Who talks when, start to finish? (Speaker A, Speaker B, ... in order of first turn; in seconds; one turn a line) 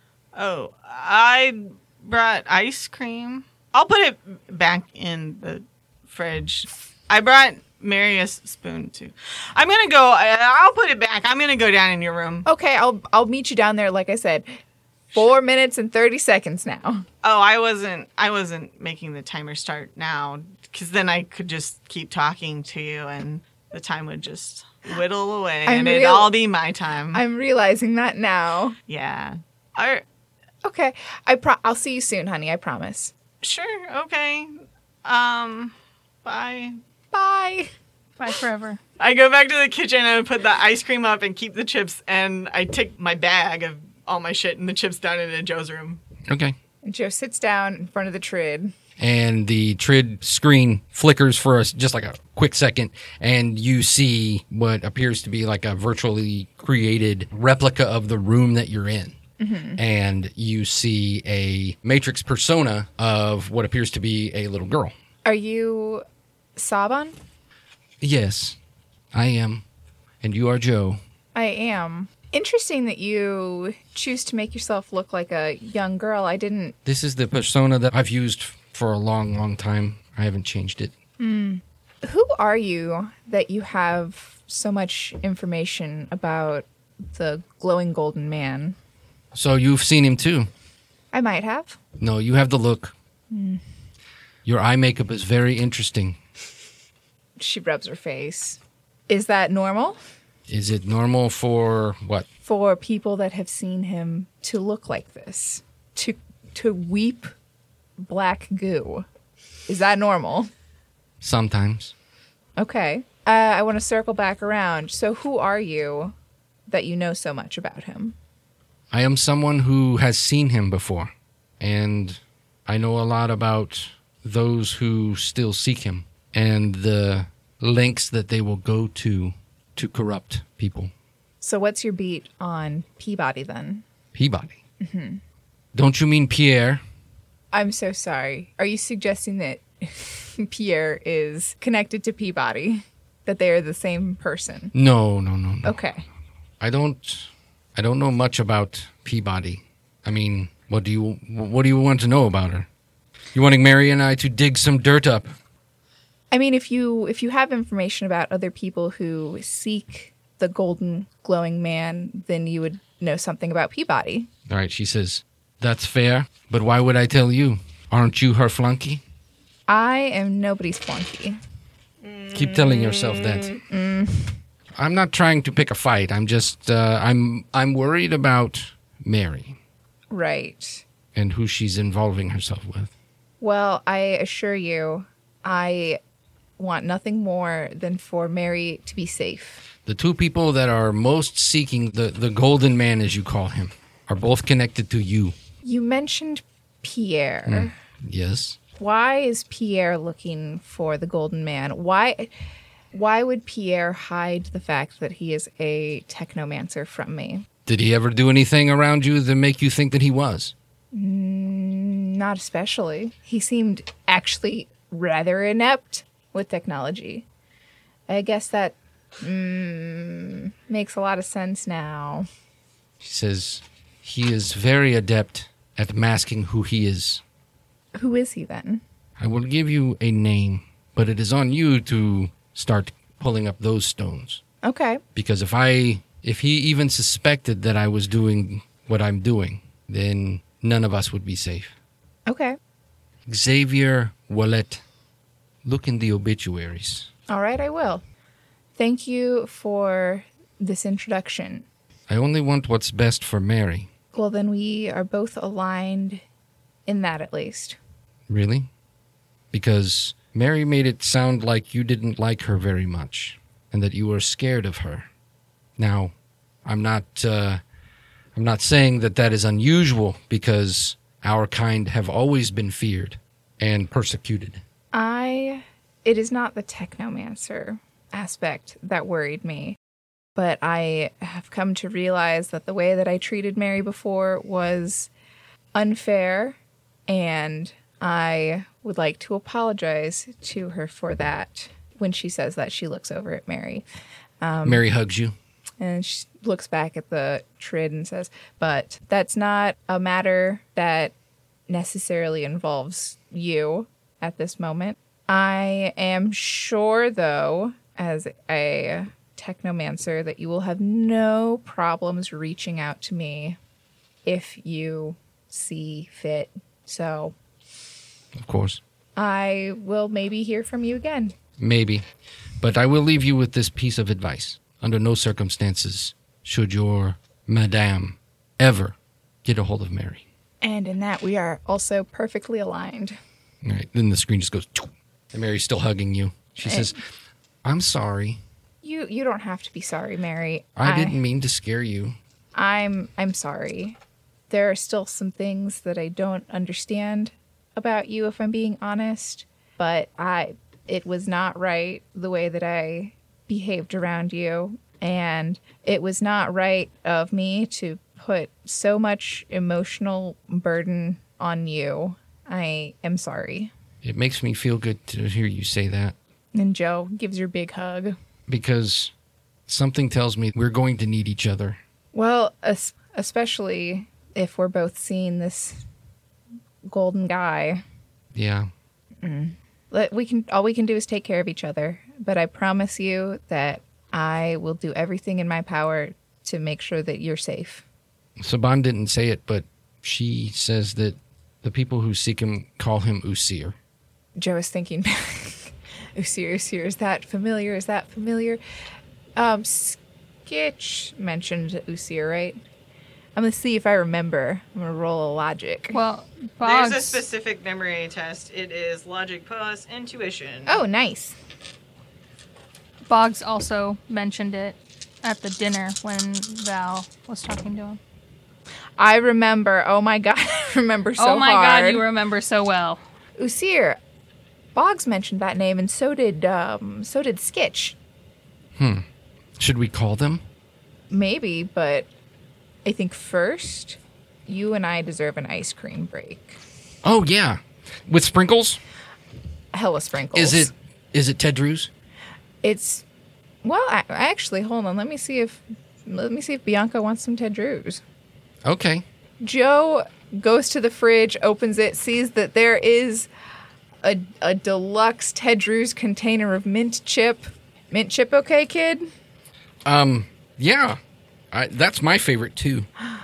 Speaker A: 0.3-12.5
Speaker B: 12.5-14.5
Speaker B: 15.1-17.1
Speaker A: 17.2-27.2
Speaker B: 25.7-26.3
Speaker B: 27.1-28.8
Speaker A: 28.9-30.0
Speaker B: 30.6-33.1
Speaker A: 33.4-35.7
Speaker A: 36.2-36.8
Speaker B: 37.1-37.7
Speaker C: 38.2-38.8
Speaker A: 39.0-46.0
Speaker D: 46.3-46.5
Speaker B: 46.8-48.7
Speaker D: 49.0-59.2
Speaker B: 59.4-59.8
Speaker D: 59.8-64.9
Speaker B: 65.2-66.0
Speaker B: 66.6-67.2
Speaker D: 68.0-68.6
Speaker D: 69.1-69.6
Speaker D: 70.2-71.0
Speaker B: 71.3-76.8
Speaker D: 76.8-80.9
Speaker B: 81.2-88.8
Speaker D: 89.3-90.5
Speaker B: 91.1-91.8
Speaker D: 92.0-92.9
Speaker B: 93.3-93.6
Speaker D: 94.5-96.2
Speaker B: 97.4-100.0
Speaker D: 100.5-102.3
Speaker B: 102.5-107.3
Speaker B: 108.0-109.1
Speaker B: 109.7-110.5
Speaker D: 111.2-111.9
Speaker B: 112.6-116.1
Speaker B: 116.7-118.2
Speaker D: 118.9-130.9
Speaker B: 131.4-133.8
Speaker D: 134.1-134.6
Speaker B: 134.8-135.2
Speaker D: 135.7-136.8
Speaker B: 137.5-144.7
Speaker D: 144.7-145.8
Speaker B: 145.7-146.0
Speaker D: 146.6-152.7
Speaker D: 153.3-155.3
Speaker B: 156.3-164.3
Speaker D: 164.5-169.0
Speaker B: 169.7-171.4
Speaker A: 172.1-172.8
Speaker D: 172.3-173.6
Speaker B: 173.7-174.4
Speaker D: 174.8-179.6
Speaker B: 180.1-180.8
Speaker D: 181.2-182.9
Speaker B: 183.4-186.0
Speaker B: 186.6-189.7
Speaker D: 189.9-195.3
Speaker B: 195.6-197.7
Speaker D: 197.5-198.6
Speaker B: 198.8-202.3
Speaker B: 202.9-207.4
Speaker D: 207.7-210.5
Speaker B: 210.9-217.2
Speaker B: 218.1-222.3
Speaker D: 223.0-227.2
Speaker B: 227.9-228.8
Speaker D: 229.2-234.4
Speaker B: 234.6-235.0
Speaker D: 235.2-241.7
Speaker B: 242.3-242.6
Speaker D: 243.3-244.8
Speaker D: 245.7-247.1
Speaker B: 247.3-248.0
Speaker B: 248.8-251.7
Speaker D: 252.1-253.9
Speaker B: 254.1-256.2
Speaker B: 256.9-257.8
Speaker D: 258.3-258.7
Speaker D: 259.5-265.1
Speaker D: 265.8-266.1
Speaker D: 266.6-267.6
Speaker D: 268.4-274.6
Speaker B: 274.9-279.8
Speaker B: 280.4-285.1
Speaker B: 285.7-286.6
Speaker B: 287.1-293.9
Speaker B: 294.4-294.8
Speaker D: 294.6-295.3
Speaker B: 295.8-301.1
Speaker B: 301.7-313.6
Speaker B: 314.2-317.4
Speaker D: 318.4-318.8
Speaker B: 319.2-321.4
Speaker D: 321.6-322.0
Speaker D: 322.6-330.2
Speaker B: 330.6-333.2
Speaker D: 333.6-337.0
Speaker B: 336.6-336.9
Speaker D: 337.6-338.4
Speaker B: 338.8-341.2
Speaker D: 340.8-342.1
Speaker B: 342.6-344.0
Speaker B: 344.5-363.7
Speaker D: 364.0-366.2
Speaker B: 366.5-368.1
Speaker D: 368.5-369.1
Speaker D: 369.7-371.8
Speaker B: 372.1-375.8
Speaker B: 376.9-377.8
Speaker D: 378.3-378.7
Speaker B: 379.2-387.8
Speaker D: 388.4-393.8
Speaker B: 394.4-398.6
Speaker B: 399.4-402.6
Speaker B: 403.4-406.0
Speaker C: 405.9-407.2
Speaker A: 406.6-410.8
Speaker B: 410.7-411.4
Speaker C: 413.1-418.0
Speaker B: 419.0-422.1
Speaker C: 421.2-423.0
Speaker B: 423.4-424.0
Speaker B: 424.7-428.0
Speaker D: 428.8-429.0
Speaker D: 429.6-430.4
Speaker B: 431.1-432.1
Speaker B: 432.9-436.6
Speaker D: 437.0-438.8
Speaker B: 439.7-440.7
Speaker D: 440.3-441.9
Speaker B: 442.6-443.0
Speaker B: 443.6-448.0
Speaker D: 448.6-449.0
Speaker B: 449.4-453.3
Speaker B: 454.0-459.1
Speaker D: 459.9-461.0
Speaker D: 461.5-462.9